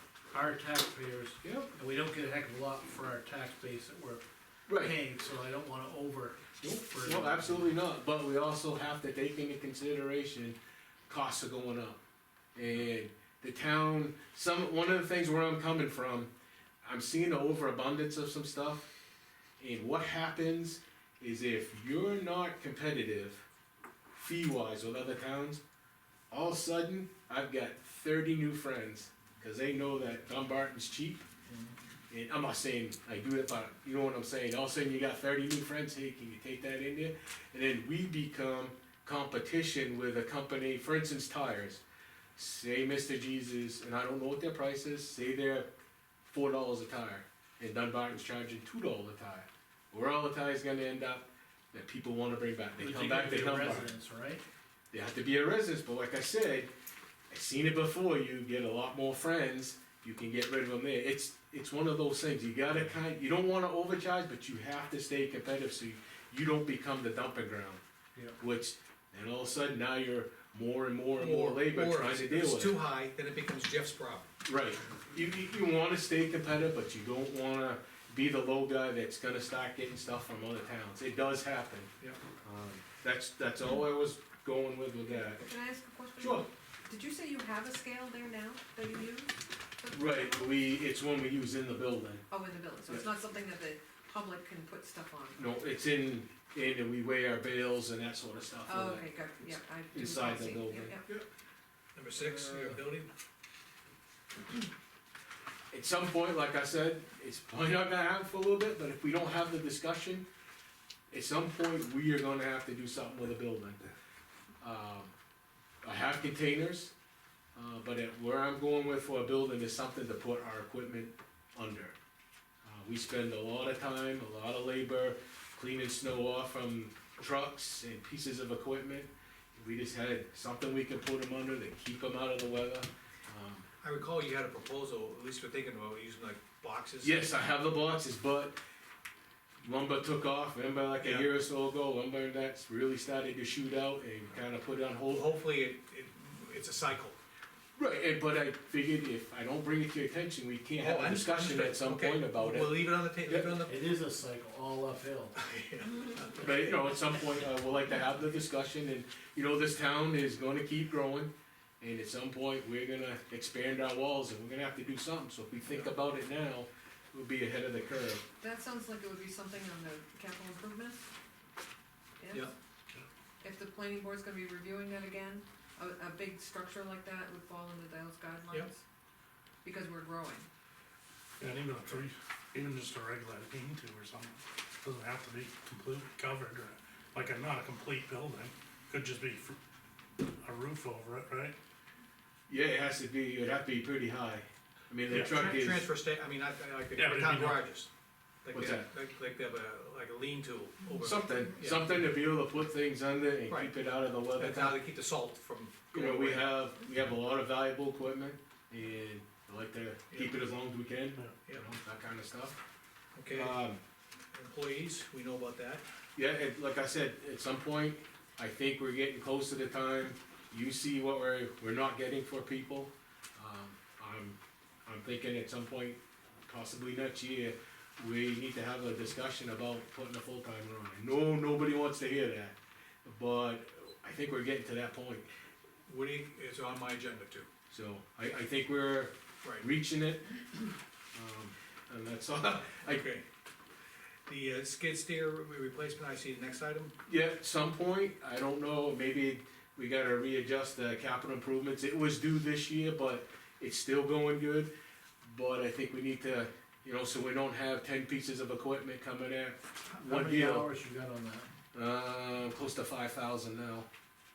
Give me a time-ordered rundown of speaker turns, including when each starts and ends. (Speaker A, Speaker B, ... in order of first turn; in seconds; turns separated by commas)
Speaker A: 0.3-7.7, Speaker B: 1.4-1.7, Speaker B: 4.7-5.0, Speaker B: 6.6-10.6, Speaker B: 11.1-12.0, Speaker B: 12.5-16.3, Speaker B: 16.8-18.9, Speaker B: 19.6-23.4, Speaker B: 24.1-25.6, Speaker B: 26.3-31.2, Speaker A: 31.4-31.7, Speaker B: 32.1-41.8, Speaker B: 42.4-45.7, Speaker B: 46.2-53.9, Speaker A: 52.8-54.4, Speaker B: 54.9-56.7, Speaker B: 57.3-67.8, Speaker B: 68.4-72.8, Speaker C: 71.2-74.3, Speaker B: 74.4-81.9, Speaker B: 82.4-85.4, Speaker D: 85.3-90.5, Speaker B: 86.2-86.5, Speaker B: 89.9-92.2, Speaker D: 92.3-95.5, Speaker B: 95.3-101.2, Speaker D: 98.7-101.0, Speaker C: 101.9-103.1, Speaker B: 102.2-102.8, Speaker B: 105.7-110.2, Speaker B: 111.1-113.8, Speaker B: 114.6-115.1, Speaker B: 115.8-116.9, Speaker B: 117.5-121.9, Speaker B: 122.6-133.7, Speaker C: 133.8-137.2, Speaker B: 137.0-138.6, Speaker B: 139.6-145.3, Speaker C: 141.0-141.3, Speaker C: 145.1-147.2, Speaker B: 147.8-153.5, Speaker C: 150.7-153.8, Speaker A: 153.7-155.3, Speaker C: 155.3-156.7, Speaker B: 156.4-168.2, Speaker D: 168.4-171.1, Speaker D: 172.2-172.5, Speaker D: 173.4-178.8, Speaker D: 179.6-180.5, Speaker E: 181.4-189.6, Speaker E: 190.4-191.5, Speaker B: 192.5-195.9, Speaker E: 195.1-195.4, Speaker C: 195.1-197.9, Speaker E: 196.9-197.6, Speaker C: 198.4-201.8, Speaker B: 198.5-198.9, Speaker B: 201.0-204.8, Speaker C: 203.5-203.7, Speaker C: 204.3-206.5, Speaker B: 205.9-212.6, Speaker C: 210.1-210.4, Speaker C: 213.1-213.6, Speaker B: 213.3-213.8, Speaker C: 214.3-215.8, Speaker B: 216.2-235.3, Speaker C: 235.9-237.5, Speaker B: 237.7-240.4, Speaker C: 239.4-239.7, Speaker B: 241.1-243.0, Speaker C: 242.6-243.2, Speaker C: 244.3-246.9, Speaker B: 247.1-254.7, Speaker B: 255.2-260.7, Speaker A: 259.9-261.5, Speaker B: 261.7-263.9